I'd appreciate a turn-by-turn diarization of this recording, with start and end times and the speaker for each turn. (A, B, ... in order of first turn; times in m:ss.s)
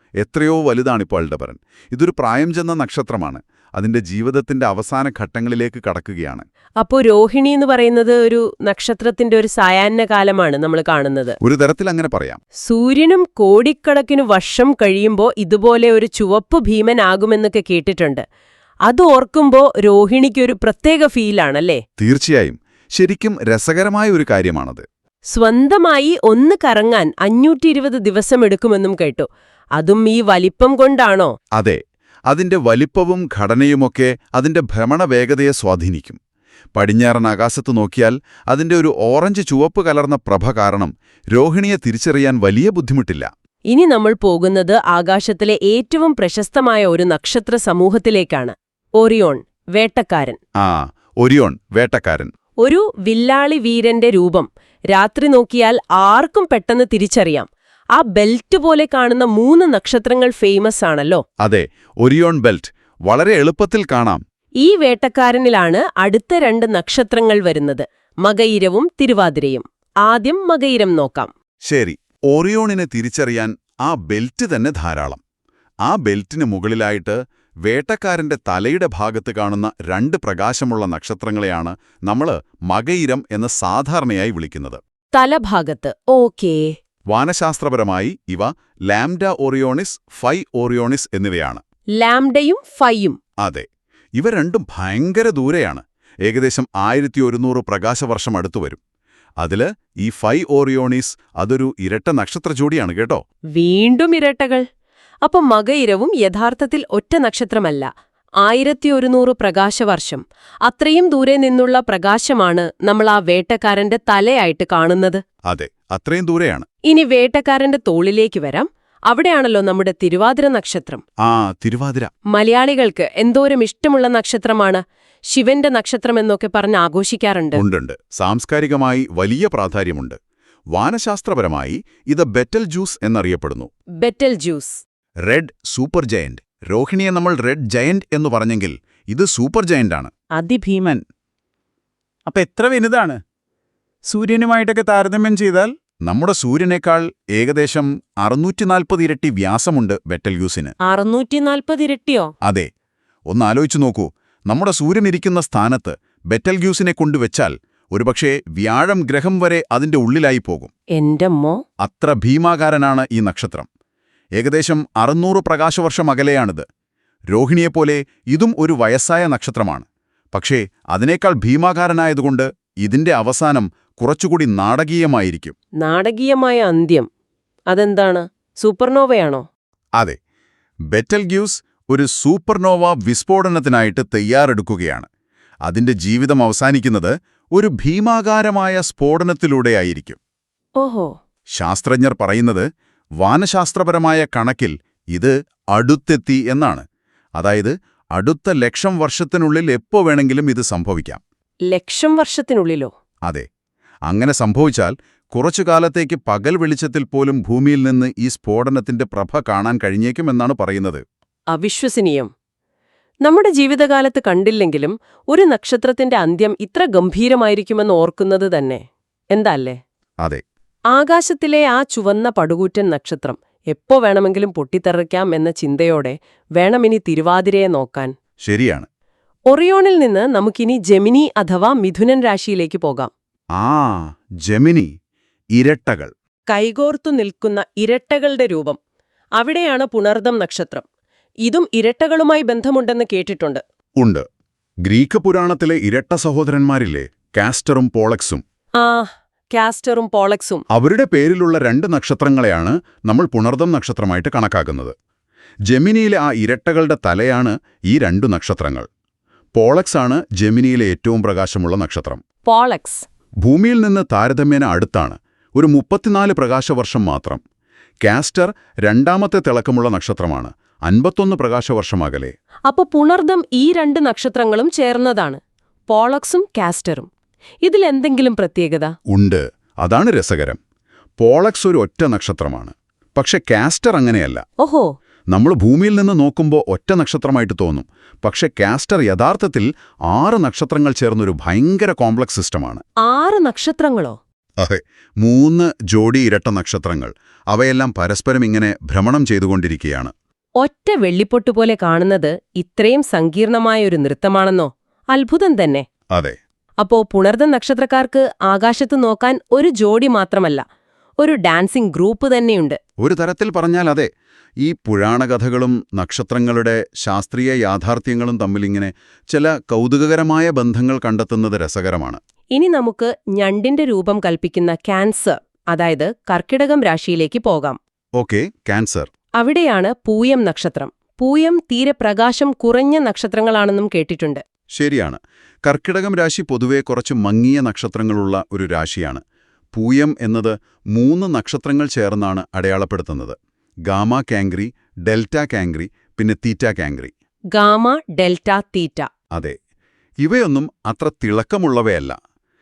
0:00.2-0:06.4 A
0:06.8-0:11.4 B
0:11.4-0:12.4 A
0:12.6-0:18.2 B
0:18.9-0:21.8 B
0:22.0-0:24.8 A
0:25.3-0:31.3 B
0:32.3-0:36.2 A
0:36.8-0:43.3 A
0:43.7-0:50.4 B
0:50.6-0:52.3 A
0:52.6-1:01.2 B
1:01.4-1:04.2 A
1:04.6-1:11.3 B
1:11.7-1:15.2 A
1:15.9-1:24.8 A
1:25.1-1:26.7 B
1:27.1-1:31.6 A
1:32.0-1:33.2 B
1:33.4-1:38.8 A
1:39.4-1:43.2 A
1:43.6-1:44.6 B
1:45.2-1:47.9 B
1:48.4-1:55.2 B
1:55.5-1:56.7 A
1:56.8-2:01.0 B
2:01.2-2:02.1 A
2:02.3-2:07.6 B
2:07.6-2:10.2 A
2:10.8-2:13.7 A
2:14.0-2:14.8 B
2:15.2-2:20.1 A
2:20.4-2:21.0 C
2:22.3-2:23.2 C
2:24.0-2:25.8 C
2:26.1-2:30.8 A
2:30.8-2:32.3 B
2:33.3-2:40.7 A
2:41.0-2:41.6 B
2:41.8-2:43.7 A
2:44.4-2:46.7 A
2:47.3-2:55.6 A
2:55.8-2:57.1 B
2:57.7-2:59.5 B
3:00.9-3:05.1 A
3:05.7-3:10.2 A
3:10.8-3:11.1 B
3:11.6-3:12.7 A
3:13.2-3:16.8 A
3:17.4-3:21.2 A
3:21.7-3:22.9 B
3:24.1-3:31.0 A
3:31.5-3:32.3 B
3:33.2-3:38.8 B
3:39.3-3:39.8 B
3:40.9-3:48.1 B
3:48.4-3:48.9 A
3:49.5-3:53.1 B
3:53.6-3:54.9 A
3:55.6-3:56.1 A
3:56.5-3:58.8 B
3:59.4-4:00.8 B
4:01.4-4:03.6 B
4:04.0-4:04.2 A
4:04.9-4:08.4 A
4:08.8-4:10.6 B
4:10.7-4:14.9 A
4:15.7-4:18.9 A
4:19.6-4:22.2 A
4:22.4-4:23.0 B
4:23.4-4:27.4 A
4:28.0-4:32.4 A
4:32.7-4:37.1 B
4:37.6-4:38.9 B
4:39.1-4:40.6 A
4:41.2-4:44.4 A
4:44.6-4:44.9 B
4:45.3-4:52.8 A
4:53.0-4:54.2 B
4:54.6-5:00.1 A
5:00.6-5:05.8 B
5:06.8-5:10.6 B
5:11.2-5:12.8 B
5:13.0-5:14.1 A
5:14.6-5:22.2 A
5:22.6-5:27.8 B
5:28.2-5:29.1 A
5:29.4-5:34.4 B
5:34.8-5:39.2 A
5:39.8-5:43.4 A
5:43.9-5:47.1 A
5:47.5-5:49.1 B
5:50.2-5:52.2 A